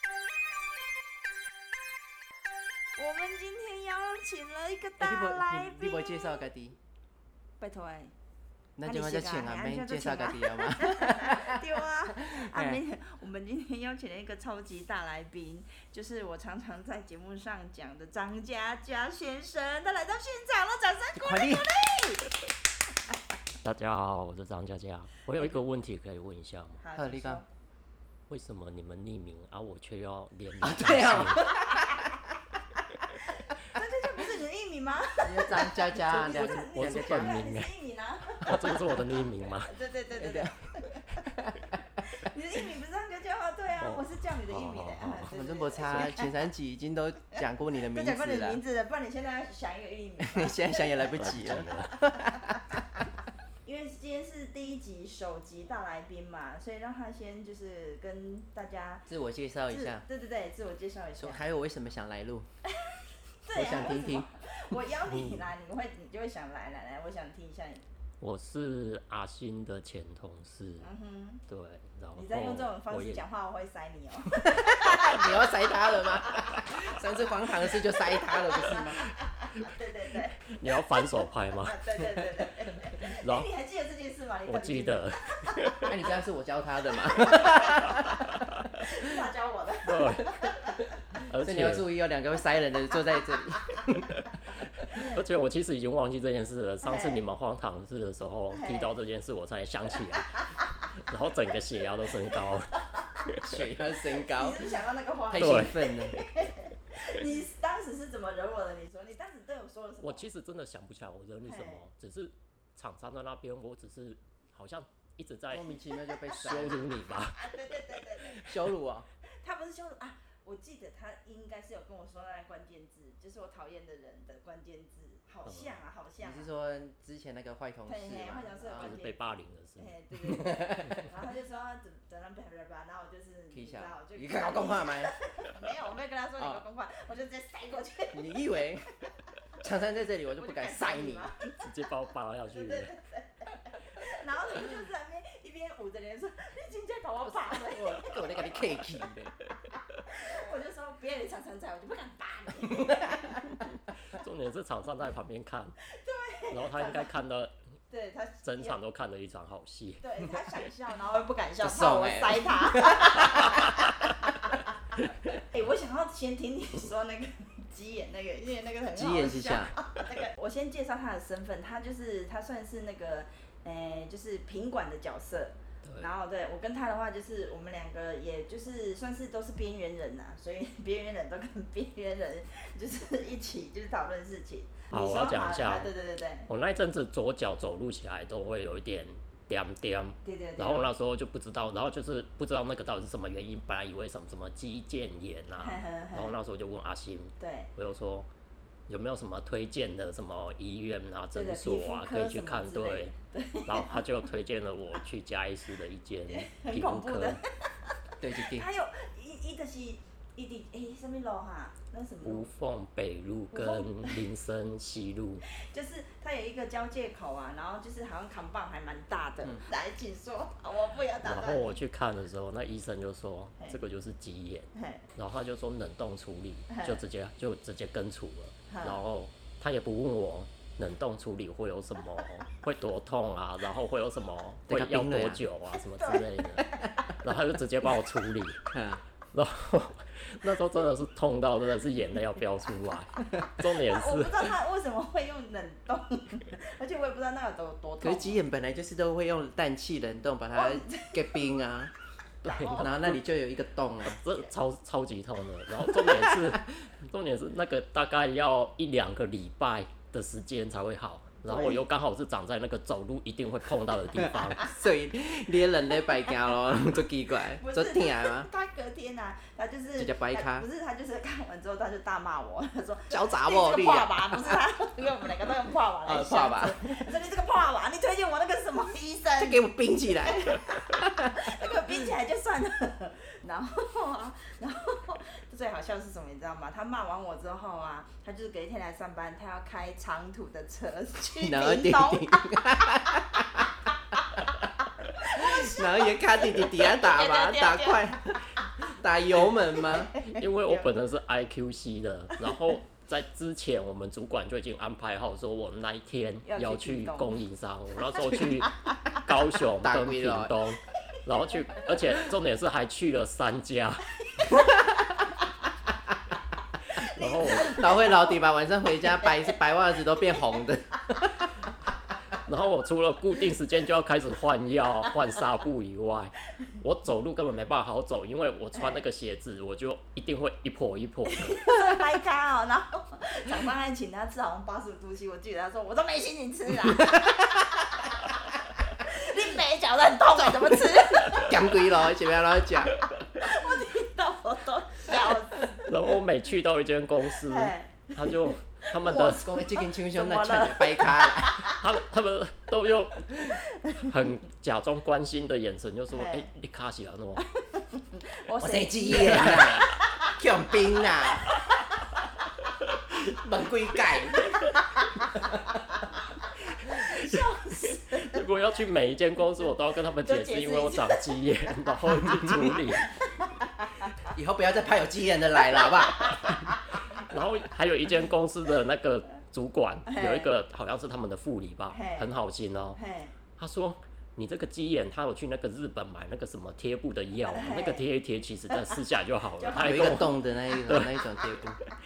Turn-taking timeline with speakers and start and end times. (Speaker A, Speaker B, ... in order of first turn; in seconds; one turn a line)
Speaker A: 3.0-6.5
Speaker B: 5.0-6.8
Speaker A: 7.6-8.1
Speaker B: 8.8-11.6
Speaker A: 8.8-22.3
Speaker B: 12.2-12.8
Speaker B: 21.2-21.7
Speaker C: 23.6-26.8
Speaker A: 26.8-27.5
Speaker B: 26.9-27.4
Speaker C: 28.3-31.5
Speaker B: 30.6-32.3
Speaker A: 33.2-39.0
Speaker B: 35.2-37.4
Speaker C: 36.6-37.7
Speaker C: 38.4-39.7
Speaker A: 39.7-41.0
Speaker B: 40.2-40.5
Speaker B: 41.3-41.8
Speaker A: 42.1-46.3
Speaker C: 43.8-45.3
Speaker B: 45.3-48.6
Speaker A: 47.9-51.0
Speaker B: 50.2-52.8
Speaker C: 51.1-52.1
Speaker A: 53.6-59.1
Speaker B: 59.1-60.0
Speaker A: 59.7-61.4
Speaker B: 61.2-62.5
Speaker A: 62.7-67.8
Speaker B: 63.5-64.3
Speaker C: 65.1-65.4
Speaker C: 68.2-70.9
Speaker A: 70.8-71.4
Speaker C: 71.5-73.2
Speaker A: 72.2-75.4
Speaker B: 74.4-79.0
Speaker A: 76.2-76.6
Speaker A: 78.3-80.4
Speaker C: 80.5-81.8
Speaker A: 81.7-85.9
Speaker C: 83.0-83.5
Speaker C: 84.5-85.9
Speaker B: 85.9-88.6
Speaker A: 87.1-88.0
Speaker A: 88.8-90.9
Speaker C: 89.9-90.6
Speaker C: 91.2-91.9
Speaker B: 91.4-94.2
Speaker C: 94.8-103.5
Speaker A: 94.9-95.2
Speaker A: 96.8-97.2
Speaker A: 98.5-98.9
Speaker A: 100.4-100.6
Speaker B: 103.4-104.8
Speaker A: 104.2-110.3
Speaker B: 105.3-106.2
Speaker C: 105.3-105.8
Speaker C: 110.0-117.5
Speaker A: 111.5-111.8
Speaker B: 115.5-116.8
Speaker A: 117.3-118.5
Speaker B: 118.3-119.1
Speaker A: 119.4-126.5
Speaker C: 125.5-125.8
Speaker B: 126.2-129.0
Speaker A: 127.9-129.2
Speaker C: 128.7-129.9
Speaker A: 129.8-138.4
Speaker B: 130.2-131.1
Speaker B: 133.5-135.1
Speaker B: 136.4-136.6
Speaker B: 138.1-138.9
Speaker B: 139.6-141.3
Speaker A: 140.4-141.6
Speaker C: 141.6-142.9
Speaker A: 142.5-148.6
Speaker B: 147.4-149.3
Speaker A: 150.1-153.5
Speaker B: 152.6-153.4
Speaker C: 154.0-155.8
Speaker A: 155.9-157.1
Speaker C: 156.5-157.5
Speaker A: 157.9-158.8
Speaker C: 158.4-160.0
Speaker A: 160.0-164.7
Speaker B: 161.6-163.8
Speaker A: 165.4-186.5
Speaker B: 168.9-169.8
Speaker C: 175.8-176.1
Speaker C: 184.9-185.9
Speaker C: 186.5-198.3
Speaker A: 190.2-190.9
Speaker A: 195.6-196.3
Speaker A: 197.4-197.7
Speaker C: 198.9-203.1
Speaker A: 201.3-204.0
Speaker C: 203.7-207.4
Speaker A: 206.3-212.5
Speaker B: 208.2-208.7
Speaker C: 212.2-215.4
Speaker A: 213.5-214.2
Speaker A: 215.5-221.8
Speaker C: 221.2-238.6
Speaker A: 224.8-225.1
Speaker A: 226.7-227.0
Speaker A: 228.7-229.0
Speaker B: 234.7-235.4
Speaker B: 238.7-239.0
Speaker C: 239.3-244.6
Speaker A: 243.8-248.4
Speaker B: 248.0-251.9
Speaker A: 250.5-251.5
Speaker A: 252.4-253.1
Speaker C: 252.4-253.0
Speaker B: 252.7-254.2
Speaker C: 254.2-264.7
Speaker B: 256.1-256.6
Speaker B: 261.5-261.8
Speaker B: 264.1-268.5
Speaker A: 267.6-279.6
Speaker B: 270.0-270.7
Speaker B: 273.1-274.6
Speaker B: 276.1-277.0
Speaker B: 279.4-281.4
Speaker A: 280.2-293.2
Speaker B: 291.4-293.7
Speaker A: 294.1-298.2
Speaker B: 295.3-300.2
Speaker A: 300.1-300.9
Speaker C: 300.2-314.0
Speaker A: 306.5-307.4
Speaker A: 308.2-309.2
Speaker B: 309.8-310.5
Speaker A: 314.3-314.7
Speaker A: 316.9-318.4
Speaker C: 317.0-317.8
Speaker B: 317.5-321.5
Speaker A: 319.2-319.5
Speaker C: 322.4-331.6
Speaker A: 331.4-338.4
Speaker B: 337.0-337.4
Speaker A: 338.9-341.8
Speaker B: 340.5-343.0
Speaker A: 343.4-345.9
Speaker C: 345.7-349.5
Speaker A: 347.4-351.8
Speaker B: 349.2-351.7
Speaker C: 351.7-357.4
Speaker A: 356.1-356.5
Speaker A: 357.4-360.4
Speaker B: 358.6-361.5
Speaker B: 363.1-364.6
Speaker A: 364.6-366.0
Speaker C: 366.8-373.1
Speaker A: 366.9-368.4
Speaker A: 370.2-371.2
Speaker A: 373.4-374.3
Speaker B: 374.3-376.6
Speaker A: 375.7-376.8
Speaker C: 377.1-383.0
Speaker A: 380.1-380.5
Speaker A: 381.9-382.3
Speaker A: 383.0-383.3
Speaker C: 383.6-391.3
Speaker A: 387.5-388.0
Speaker A: 389.6-390.2
Speaker B: 389.8-391.8